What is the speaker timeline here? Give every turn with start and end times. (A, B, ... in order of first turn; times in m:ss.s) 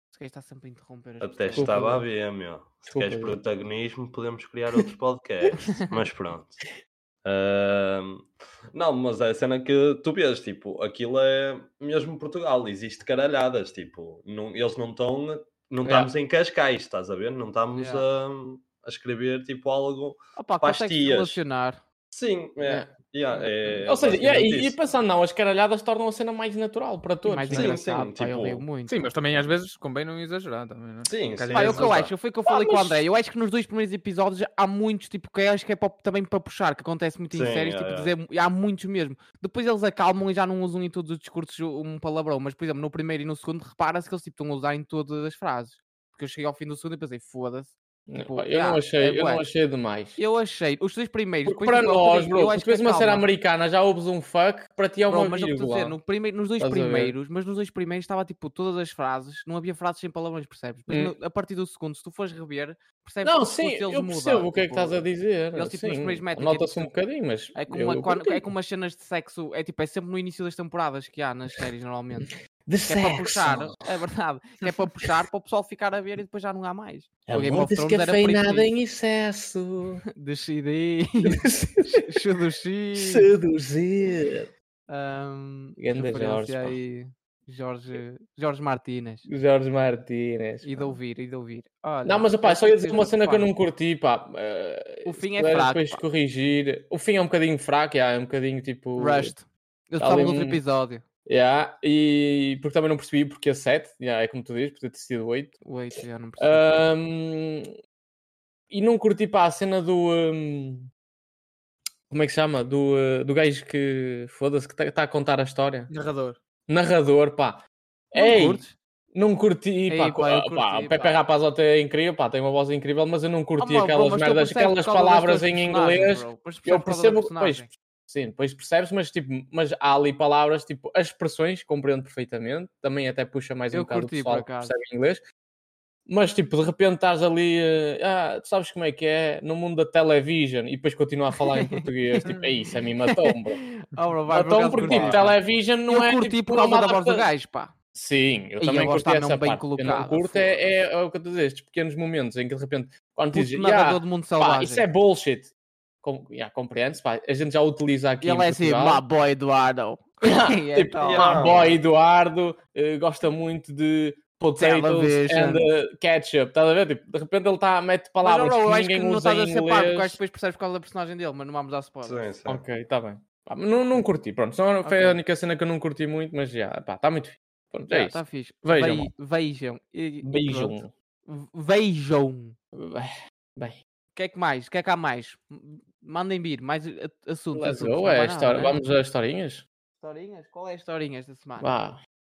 0:00.1-0:02.0 A
0:01.2-0:06.6 B
0:01.5-0:02.0 C
0:02.9-0:03.4 C
0:07.2-0:21.4 B
0:15.8-0:16.1 C
0:17.7-0:18.0 A
0:20.4-0:21.8 A
0:22.1-0:24.8 B
0:22.6-0:27.7 C
0:27.2-0:29.0 A
0:27.5-0:28.6 B
0:28.9-0:31.9 D
0:31.1-0:32.1 B
0:31.5-0:49.4 A
0:32.4-0:33.0 C
0:37.3-0:38.1 B
0:48.1-0:50.2 C
0:50.2-0:53.3 A
0:51.4-0:56.0 C
0:55.1-1:05.0 A
0:56.6-0:57.1 C
1:03.2-1:08.4 C
1:05.5-1:06.9 A
1:07.5-1:12.3 A
1:12.6-1:13.7 C
1:12.8-1:18.7 A
1:17.3-1:20.0 C
1:20.2-1:23.3 A
1:21.3-1:22.2 C
1:22.9-1:24.5 C
1:24.9-1:29.2 A
1:25.8-1:26.8 C
1:29.2-1:31.0 C
1:30.6-1:33.5 A
1:32.0-1:39.3 C
1:35.0-1:36.0 A
1:39.0-1:41.0 A
1:40.0-1:40.6 C
1:41.2-1:45.6 C
1:45.6-1:46.9 A
1:46.4-1:47.7 C
1:48.7-1:50.9 C
1:52.1-1:55.9 C
1:55.9-1:56.4 D
1:56.7-2:15.2 C
1:58.1-1:58.8 A
1:59.9-2:01.2 A
2:03.6-2:07.7 A
2:13.7-2:14.7 A
2:16.1-2:23.6 C
2:21.7-2:22.3 A
2:23.1-2:27.7 A
2:24.3-2:27.2 C
2:24.9-2:25.2 B
2:27.9-2:35.5 C
2:28.6-2:30.7 A
2:33.3-2:34.9 A
2:36.0-2:39.0 C
2:38.2-2:41.4 A
2:40.2-2:50.2 C
2:41.0-2:41.8 B
2:44.5-2:45.7 A
2:48.2-2:52.2 A
2:52.0-2:52.6 B
2:52.4-2:59.1 C
2:54.8-2:55.2 A
2:57.9-3:02.6 A
3:00.2-3:00.9 C
3:02.7-3:03.8 C
3:04.1-3:08.7 A
3:07.5-3:09.6 C
3:10.0-3:11.8 A
3:11.6-3:12.0 C